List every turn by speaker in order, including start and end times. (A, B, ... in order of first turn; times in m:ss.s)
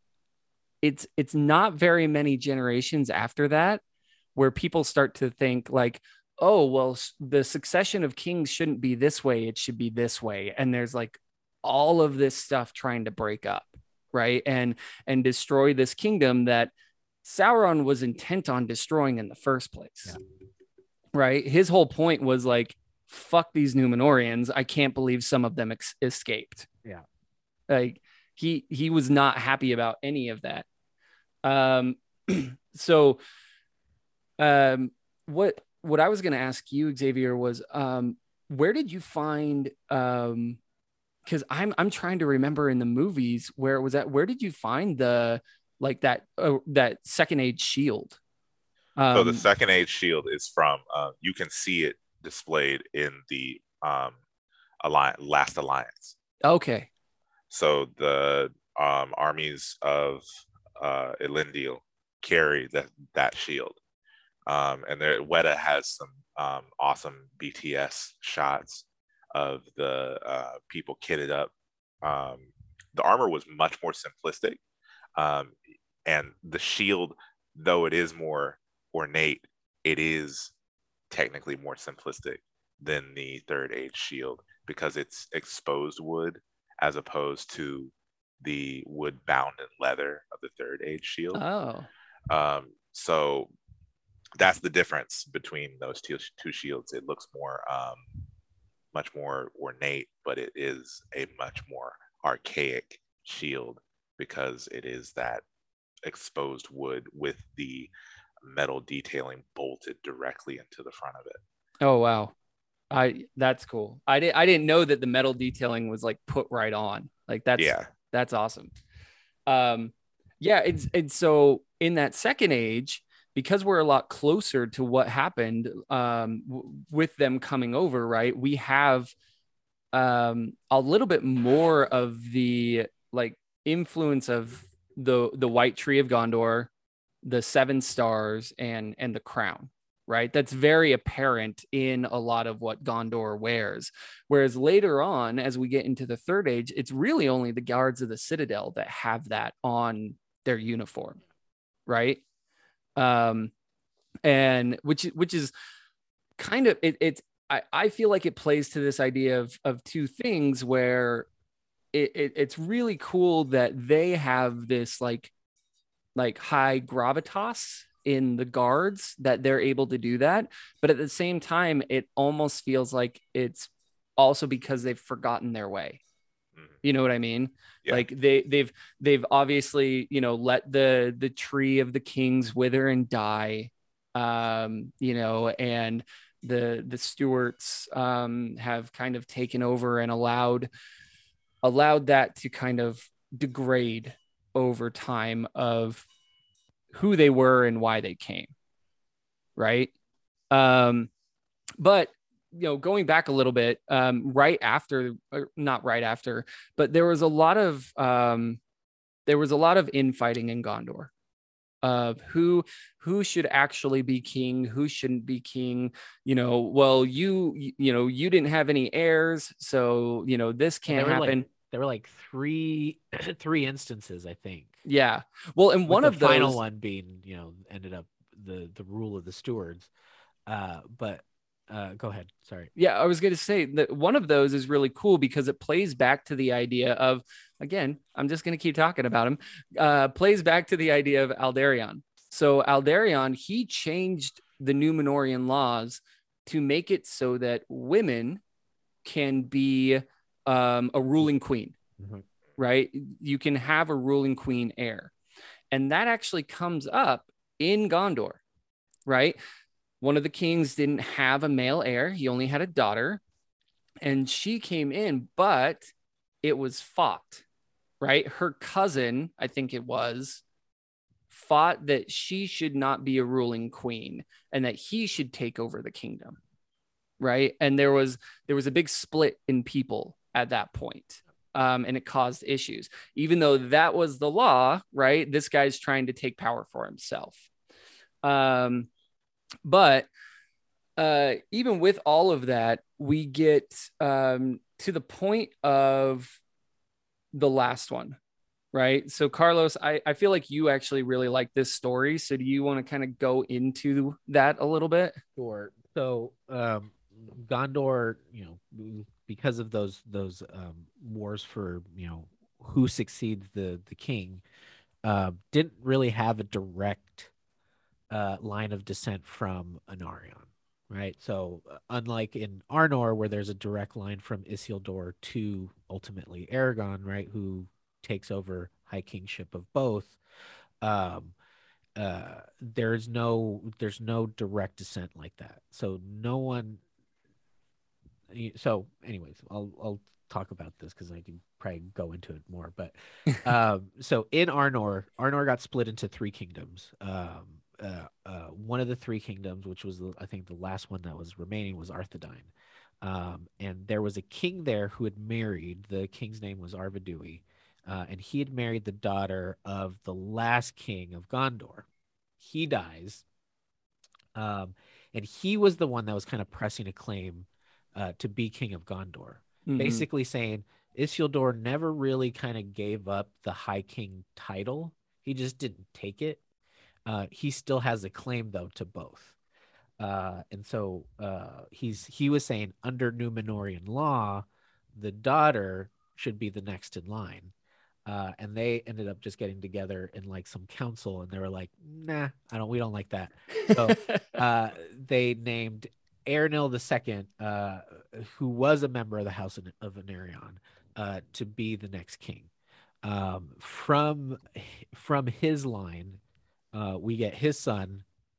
0:00.8-0:03.8 A
0:04.4-0:16.7 A
0:17.2-0:20.2 A
0:21.1-0:26.7 A
0:27.7-0:30.6 A
0:31.4-0:33.2 A
0:34.4-0:40.6 A
0:41.2-0:48.2 A
0:49.0-0:49.4 A
0:49.1-0:54.2 B
0:54.8-0:56.2 B
0:56.4-0:56.9 A
0:57.5-1:00.2 B
1:00.8-1:03.8 B
1:04.5-1:11.5 B
1:12.0-1:14.6 B
1:15.2-1:20.5 B
1:21.1-1:31.4 B
1:31.3-1:31.9 A
1:32.3-1:33.5 B
1:34.4-1:38.0 B
1:38.9-1:45.4 B
1:46.0-1:47.9 B
1:48.4-1:51.4 B
1:51.8-1:52.3 A
1:52.9-1:58.7 A
1:57.6-1:57.9 B
1:59.5-2:09.1 A
2:09.9-2:16.7 A
2:17.2-2:31.2 A
2:31.9-2:32.2 A
2:33.0-2:33.5 A
2:34.2-2:35.5 A
2:36.4-2:41.3 A
2:41.9-2:45.3 A
2:46.2-2:56.0 A
2:56.8-3:10.7 A
3:11.6-3:16.0 A
3:16.9-3:18.5 A
3:19.6-3:19.9 A
3:20.5-3:21.1 A
3:21.8-3:28.6 A
3:29.2-3:31.1 A
3:31.8-3:41.4 A
3:40.9-3:44.8 C
3:44.8-3:46.6 A
3:45.9-3:49.9 C
3:50.5-3:52.7 C
3:52.8-4:08.4 A
4:09.0-4:11.7 A
4:12.0-4:12.2 C
4:12.6-4:15.1 A
4:15.7-4:18.4 A
4:19.0-4:19.4 A
4:20.0-4:23.2 A
4:24.0-4:25.9 A
4:26.4-4:27.4 A
4:28.0-4:30.4 A
4:31.3-4:36.4 A
4:37.2-4:47.4 A
4:48.2-4:48.9 A
4:49.6-4:50.1 A
4:51.0-4:56.4 A
4:57.3-4:58.2 A
4:58.7-5:05.2 A
5:05.4-5:14.4 C
5:15.0-5:17.3 C
5:18.1-5:30.2 C
5:30.8-5:31.3 C
5:32.0-5:36.8 C
5:38.3-6:01.9 C
6:02.4-6:03.2 C
6:04.3-6:16.4 C
6:09.7-6:10.0 A
6:17.0-6:19.4 C
6:20.0-6:27.5 C
6:28.1-6:42.5 C
6:33.6-6:34.2 A
6:43.0-6:46.2 C
6:46.7-6:48.0 C